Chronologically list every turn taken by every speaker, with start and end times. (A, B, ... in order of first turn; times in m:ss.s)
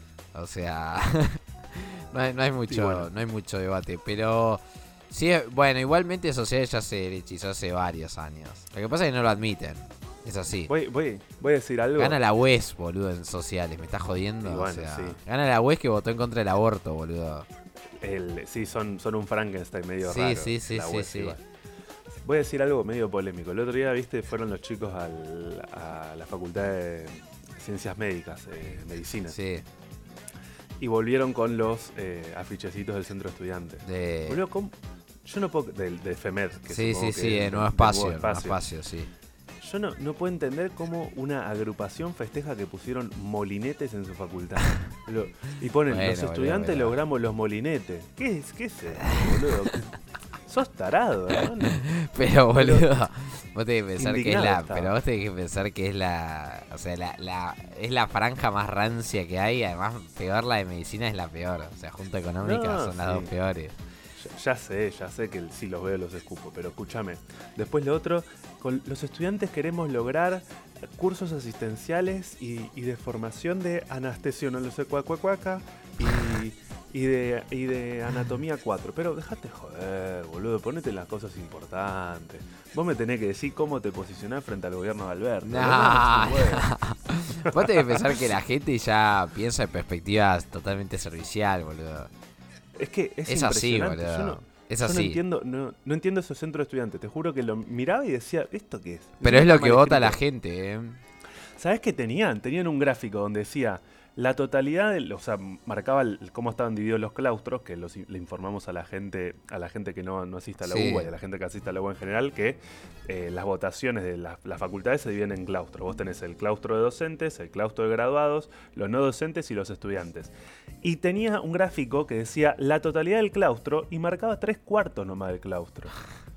0:00.3-0:10.7 A
0:02.7-0:03.1 B
0:10.7-0:12.2 B
0:12.0-0:17.5 A
0:14.4-0:15.2 B
0:18.0-0:21.4 B
0:20.0-0:21.4 A
0:22.2-0:29.4 B
0:29.3-0:29.6 A
0:30.8-0:38.6 B
0:33.8-0:34.4 A
0:36.7-0:39.1 A
0:39.6-0:49.9 B
0:45.9-0:47.0 A
0:49.0-0:49.6 A
0:50.4-0:51.8 B
0:51.6-1:03.8 A
0:52.5-0:52.9 B
0:54.0-0:55.0 B
1:02.4-1:03.3 B
1:04.2-1:26.7 B
1:25.4-1:32.1 A
1:27.4-1:28.2 B
1:32.7-1:40.2 B
1:33.3-1:35.2 A
1:39.2-1:41.0 A
1:41.6-2:05.9 B
1:50.6-1:51.1 A